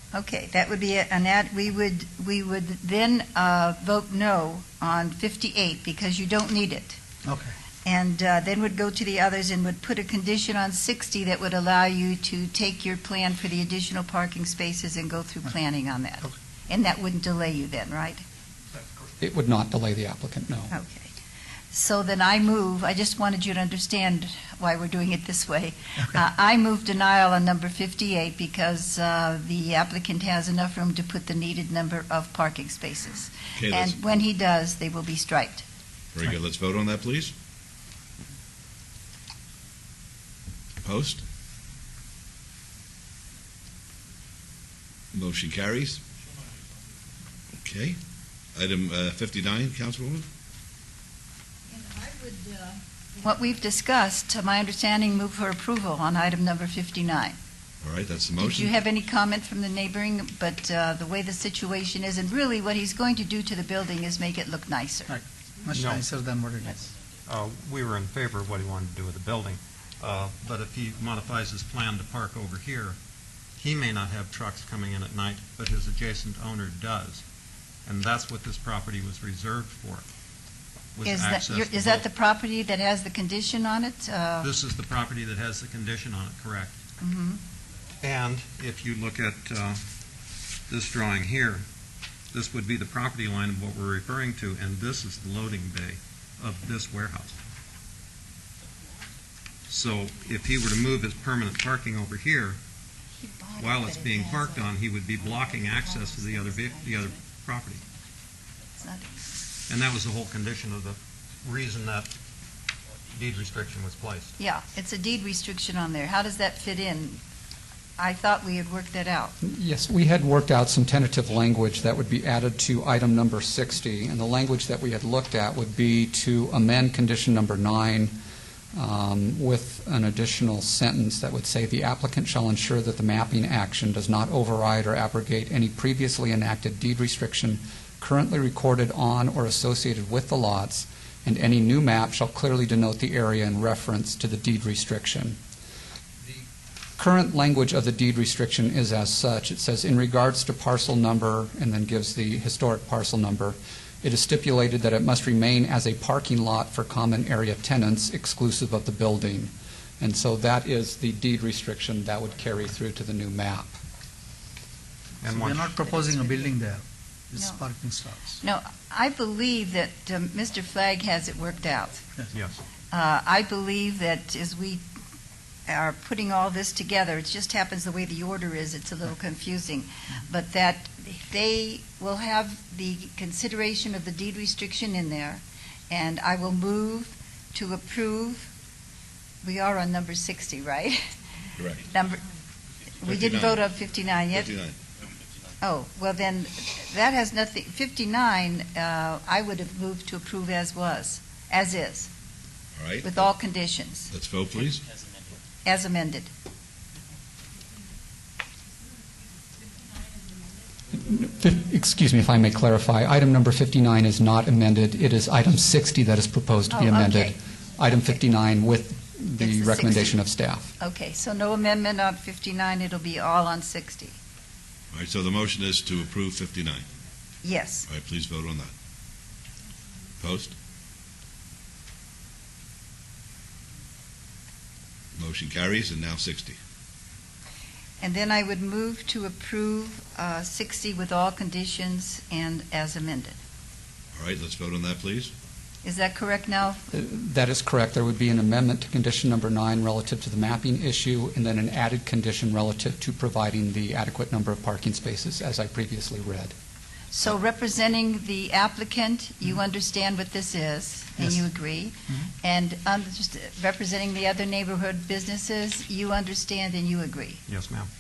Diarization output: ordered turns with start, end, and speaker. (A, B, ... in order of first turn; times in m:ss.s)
0:00.1-0:07.0 A
0:07.2-0:07.5 B
0:07.8-0:18.2 A
0:19.2-0:20.7 C
0:20.7-0:21.1 A
0:21.7-0:35.6 A
0:33.6-0:34.0 D
0:36.2-0:37.3 D
0:40.8-0:41.2 D
0:45.1-0:46.0 D
0:47.6-0:48.0 D
0:48.6-0:50.2 D
0:51.7-0:57.4 A
0:57.8-0:58.7 D
0:58.4-1:05.2 A
1:05.1-1:06.9 B
1:05.7-1:06.0 E
1:07.2-1:13.0 E
1:13.6-1:17.2 E
1:17.8-1:20.0 E
1:20.9-1:22.0 E
1:21.0-1:24.5 A
1:24.4-1:26.7 E
1:27.0-1:27.4 A
1:28.0-1:29.8 E
1:30.7-1:31.6 E
1:32.3-1:37.4 E
1:39.7-1:42.6 E
1:43.2-1:44.5 A
1:43.6-1:47.8 E
1:48.8-1:49.2 A
1:49.7-1:52.1 E
1:53.1-1:54.3 E
1:54.4-1:57.2 A
1:58.0-1:59.3 A
1:59.4-2:08.1 C
2:08.7-2:25.4 C
2:27.0-2:43.8 C
2:45.2-2:45.9 E
2:45.4-2:48.4 B
2:45.9-2:46.4 A
2:47.3-2:47.6 A
2:48.4-2:52.1 A
2:52.3-2:52.6 E
2:52.9-2:54.8 A
2:55.7-3:08.5 A
3:09.4-3:11.0 A
3:11.8-3:12.2 A
3:13.0-3:14.6 A
3:13.0-3:13.6 D
3:14.3-3:14.8 D
3:15.6-3:22.1 A
3:22.8-3:23.3 D
3:23.0-3:24.1 A
3:24.1-3:24.8 D
3:25.6-3:26.3 A
3:30.9-3:40.7 C
3:36.7-3:37.4 A
3:39.4-3:40.2 A
3:40.8-3:44.2 A
3:44.9-3:46.8 D
3:47.4-3:47.9 A
3:47.9-3:48.7 D
3:50.2-3:50.5 D
3:55.2-3:56.6 D
3:58.0-4:03.4 A
4:04.2-4:05.3 D
4:05.8-4:06.8 A
4:06.9-4:16.5 C
4:17.1-4:27.4 A
4:27.5-4:27.9 E